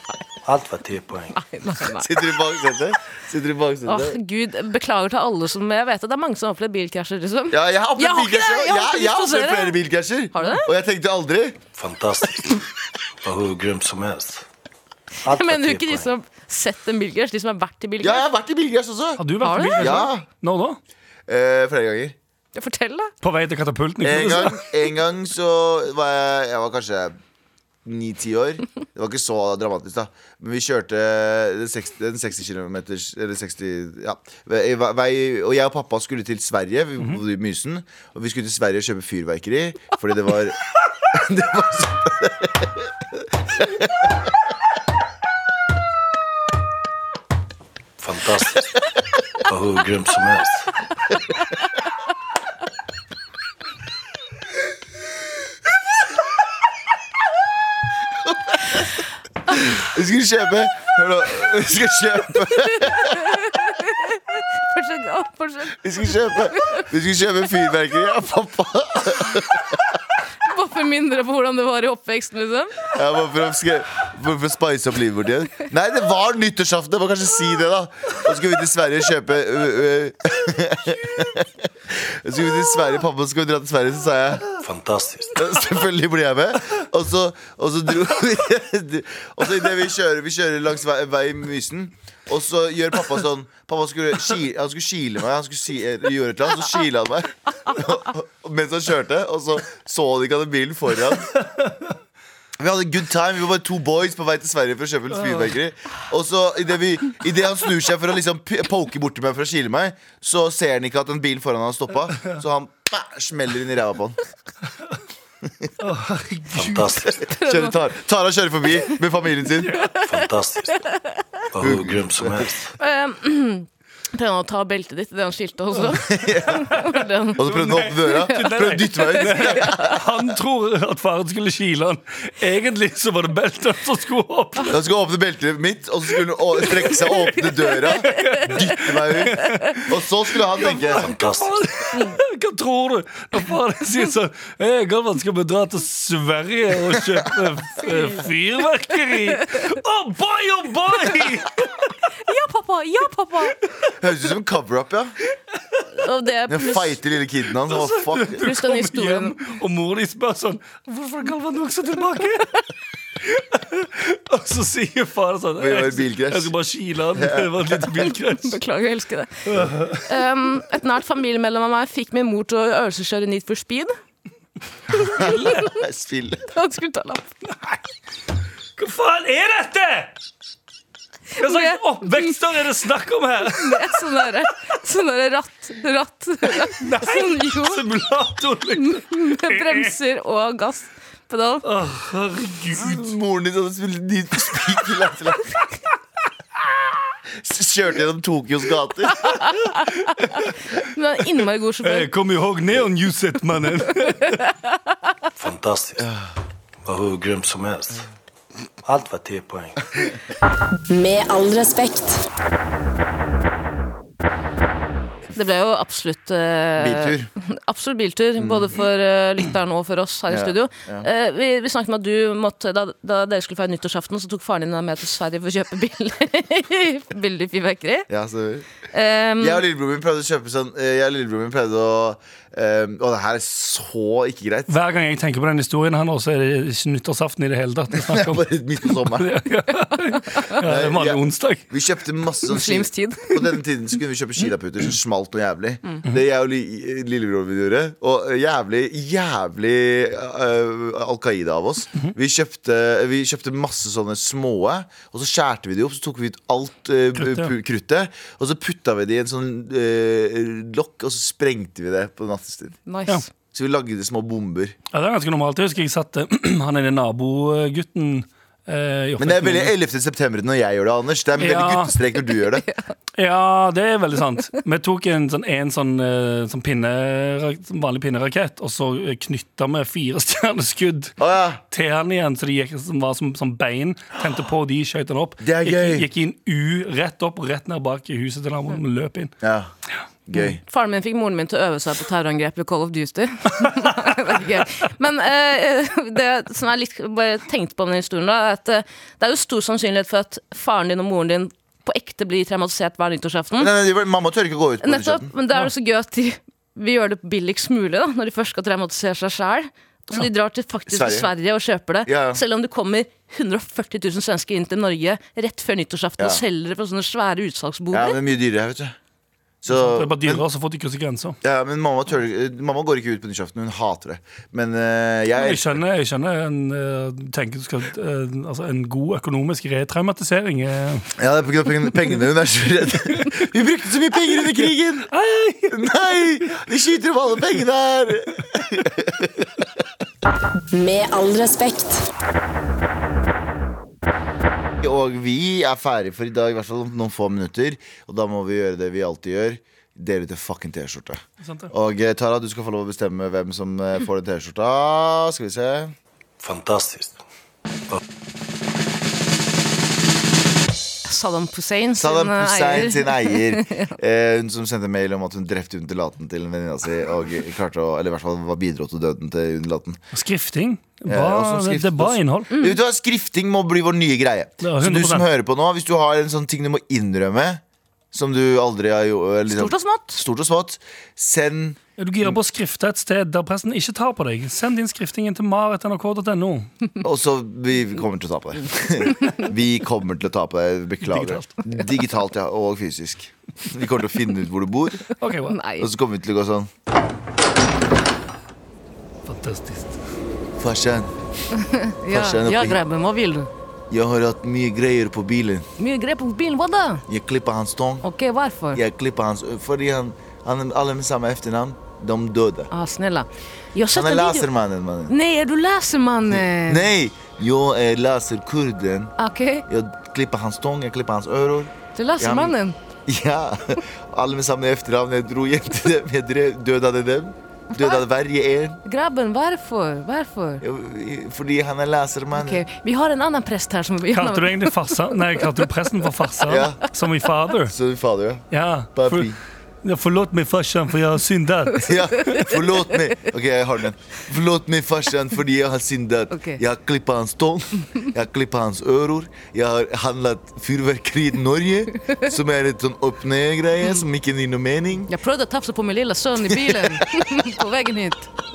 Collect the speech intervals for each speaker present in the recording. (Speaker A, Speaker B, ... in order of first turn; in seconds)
Speaker A: 0.4-1.4, 11.8-12.6, 13.2-14.4, 15.2-16.1, 48.0-48.8, 49.5-50.7, 84.6-85.4, 116.5-117.2, 119.9-120.8, 121.5-122.7, 141.0-141.6, 205.4-206.1, 206.8-208.1, 208.8-210.1, 356.4-357.2
Speaker B: 1.4-2.5, 3.9-9.8, 10.3-10.7, 15.2-18.2, 19.4-20.0, 22.5-23.1, 62.6-66.9, 70.4-72.9, 117.2-117.8, 122.8-130.0, 137.8-138.6, 139.4-139.8, 152.2-153.6, 155.9-157.0, 158.4-159.4, 168.2-173.9, 175.1-175.8, 176.5-177.4, 181.4-182.3, 183.5-187.8, 188.7-191.7, 199.1-202.1, 215.3-228.1, 228.9-229.6, 242.4-243.4, 262.9-263.3, 272.5-272.9, 290.4-303.7, 304.8-318.2, 361.0-363.9, 372.5-372.8, 379.5-380.2, 395.5-395.9, 401.5-403.5, 405.8-407.0, 408.0-408.8, 412.7-414.5, 415.1-416.9, 419.2-419.6, 421.9-422.8, 427.7-428.0, 428.8-430.6, 432.4-435.7, 442.2-442.6, 446.3-446.6, 455.1-458.3
Speaker C: 1.9-4.2, 7.5-11.6, 18.0-19.2, 19.8-20.2, 21.3-22.1, 24.0-27.1, 27.8-42.9, 43.5-44.1, 59.5-63.5, 65.8-69.6, 72.9-84.5, 85.3-101.3, 102.6-114.2, 117.4-119.8, 121.6-122.5, 126.0-126.7, 127.4-130.2, 134.7-141.2, 153.9-155.1, 156.5-158.4, 165.6-166.5, 167.1-168.0, 174.9-176.5, 192.7-195.5, 197.3-199.3, 216.8-217.3, 218.4-218.7, 220.3-221.1, 228.1-228.7, 229.4-234.7, 237.9-239.3, 240.6-262.8, 263.5-264.8, 269.2-272.6, 281.2-281.6, 285.4-286.1, 289.4-289.7, 290.3-290.6, 303.6-305.3, 310.9-311.3, 312.1-312.4, 317.9-318.9, 319.6-320.4, 321.4-325.8, 331.1-335.1, 335.7-339.5, 344.8-355.9, 362.0-370.0, 371.1-382.4, 387.0-395.1, 395.8-396.7, 400.6-401.1, 402.1-402.8, 403.9-405.6, 407.1-408.0, 408.7-412.7, 413.9-415.1, 416.3-419.1, 419.7-422.5, 423.1-428.8, 430.6-432.6, 436.4-436.8, 437.7-439.4, 441.7-455.1, 456.5-457.0
Speaker D: 19.2-20.8, 23.2-24.7, 115.8-116.8, 126.5-134.8, 136.8-151.7, 157.6-162.6, 163.2-168.6, 169.4-170.1, 175.2-175.6, 178.8-180.1, 181.4-184.3, 186.5-189.9, 191.6-193.1, 201.8-204.5, 234.7-241.6, 257.1-257.5, 264.9-269.7, 271.4-272.0, 273.1-281.2, 281.7-289.3, 319.7-321.4, 325.4-331.1, 334.4-336.0, 351.4-351.7, 370.1-372.5, 374.6-375.3, 382.0-386.7, 391.0-391.6, 395.2-395.6, 399.2-400.0, 434.1-437.8, 438.5-439.3, 439.8-442.4
Speaker E: 210.5-212.2, 340.7-342.1